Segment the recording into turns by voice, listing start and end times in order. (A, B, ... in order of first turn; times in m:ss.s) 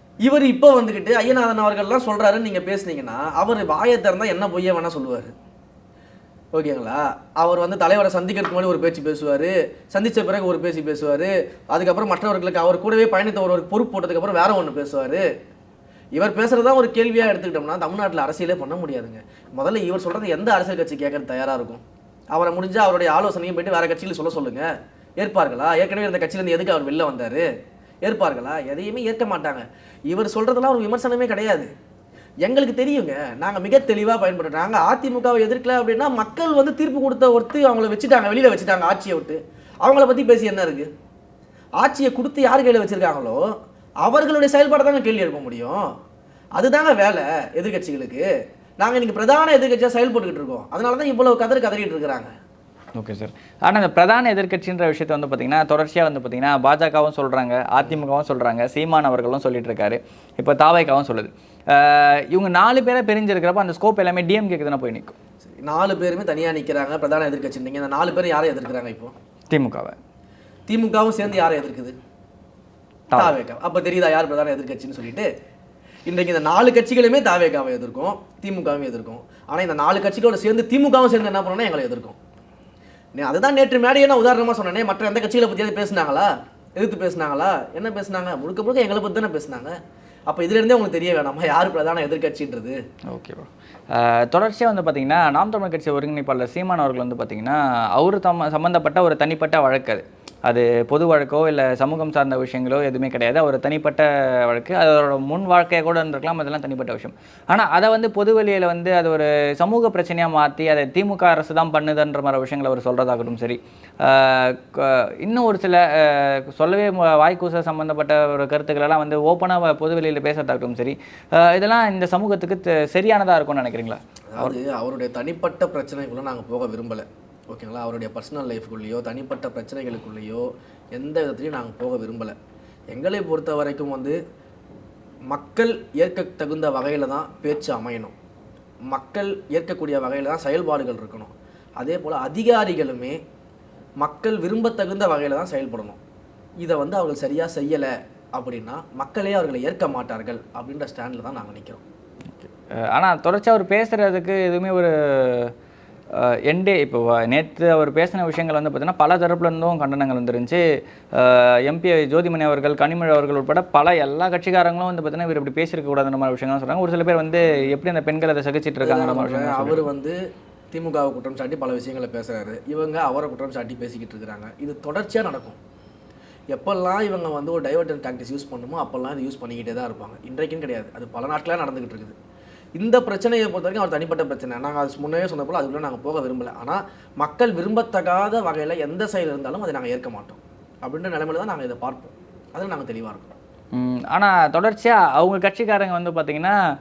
0:00.2-0:05.3 A
0:06.6-0:15.3 A
0:16.2-0:21.8 A
0:22.3-0:27.5 A
0:28.0-0:31.7 A
0:32.4-0:40.9 A
0:41.8-0:43.4 A
0:44.0-0:45.8 A
0:46.6-0:48.3 A
0:48.8-0:52.3 A
0:53.0-1:05.2 B
1:05.4-1:09.1 A
1:09.5-1:10.0 B
1:10.7-1:12.0 A
1:13.1-1:13.4 B
1:13.2-1:15.3 A
1:16.1-1:22.2 A
1:23.2-1:29.8 A
1:30.3-1:32.8 A
1:33.1-2:04.6 B
2:04.3-2:12.4 A
2:12.9-2:14.2 A
2:15.3-2:18.2 A
2:18.9-2:23.2 A
2:24.0-2:26.0 A
2:26.6-2:31.8 A
2:32.4-2:35.5 B
2:36.2-2:40.6 B
2:41.2-2:49.9 B
2:48.8-2:50.2 A
2:50.7-2:55.6 A
2:56.5-3:02.2 A
3:02.8-3:13.3 A
3:13.7-3:16.6 B